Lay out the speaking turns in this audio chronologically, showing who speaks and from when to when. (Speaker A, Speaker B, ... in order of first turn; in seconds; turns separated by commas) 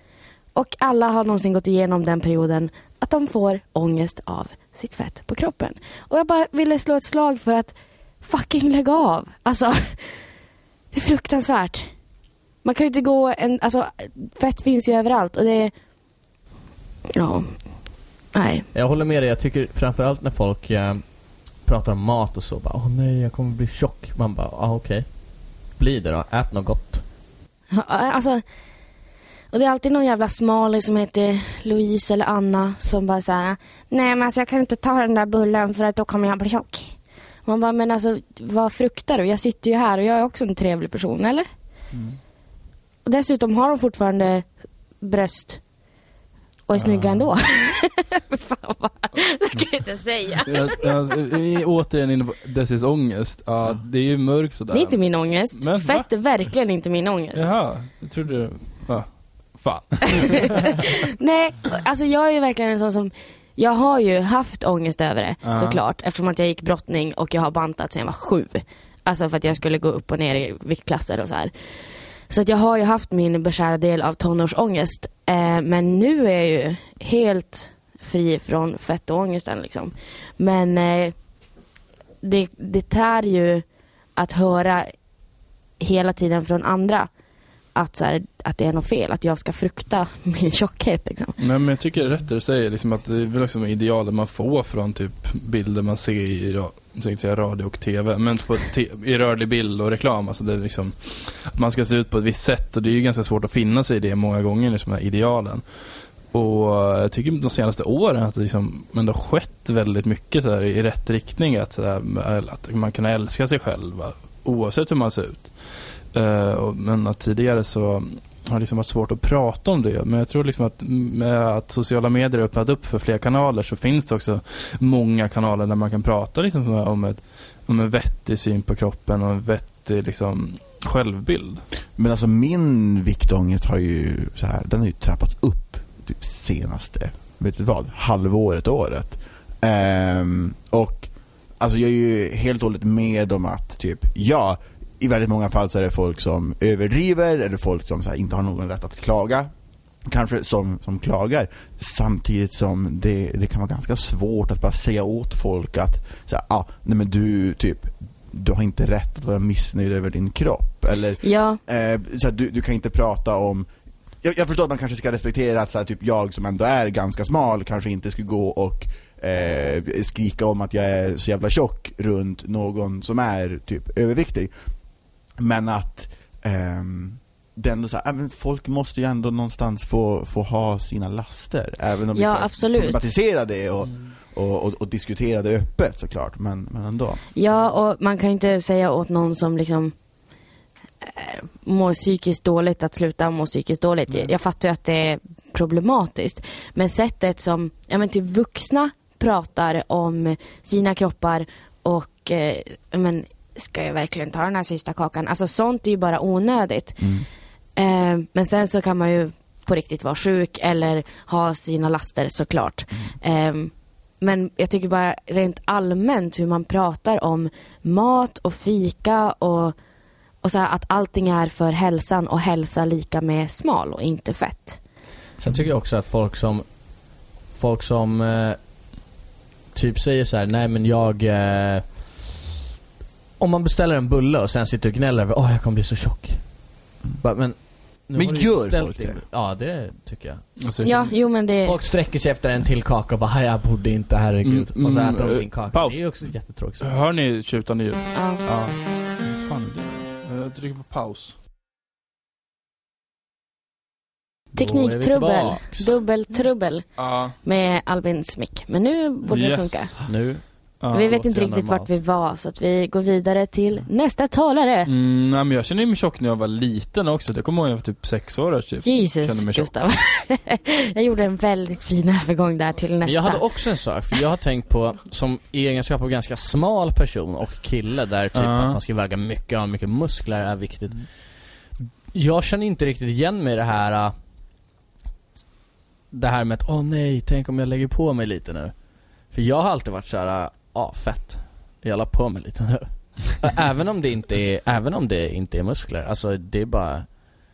Speaker A: 0.5-10.2, Speaker A: 10.9-11.9, Speaker A: 12.6-15.7, Speaker A: 17.1-17.5, Speaker A: 18.3-18.6, Speaker B: 18.7-21.0, Speaker B: 21.6-25.1, Speaker B: 25.8-27.0, Speaker A: 27.7-28.4, Speaker A: 29.5-41.5, Speaker A: 43.0-44.5, Speaker A: 45.0-45.6, Speaker A: 46.7-50.8, Speaker C: 46.8-47.2, Speaker C: 50.5-55.0, Speaker A: 54.7-57.5, Speaker C: 55.5-56.1, Speaker C: 57.3-60.6, Speaker A: 61.0-71.5, Speaker C: 65.4-65.8, Speaker A: 72.3-81.1, Speaker A: 82.2-83.6, Speaker A: 84.2-84.9, Speaker A: 85.8-87.1, Speaker A: 87.7-91.4, Speaker C: 91.4-105.6, Speaker C: 106.3-131.6, Speaker D: 132.0-149.5, Speaker D: 150.0-163.7, Speaker A: 161.2-161.6, Speaker D: 164.2-174.5, Speaker D: 175.4-187.2, Speaker A: 182.1-183.1, Speaker A: 187.3-189.9, Speaker A: 191.0-207.1, Speaker D: 207.0-207.3, Speaker A: 207.8-219.8, Speaker A: 220.4-224.8, Speaker B: 225.4-226.7, Speaker B: 227.5-228.6, Speaker B: 229.7-232.4, Speaker B: 233.4-236.6, Speaker B: 237.1-240.4, Speaker D: 238.2-239.2, Speaker C: 240.6-241.1, Speaker A: 240.8-241.8, Speaker B: 241.6-246.9, Speaker C: 244.4-246.2, Speaker C: 246.8-251.3, Speaker A: 248.1-248.4, Speaker A: 254.5-259.9, Speaker B: 254.6-256.0, Speaker C: 257.0-257.4, Speaker C: 259.3-260.1, Speaker B: 260.0-261.9, Speaker C: 260.8-261.1, Speaker A: 260.9-264.9, Speaker C: 264.9-269.7, Speaker A: 268.8-273.4, Speaker B: 273.0-281.1, Speaker C: 278.3-278.8, Speaker B: 282.1-284.1, Speaker B: 286.1-288.7, Speaker B: 289.3-297.1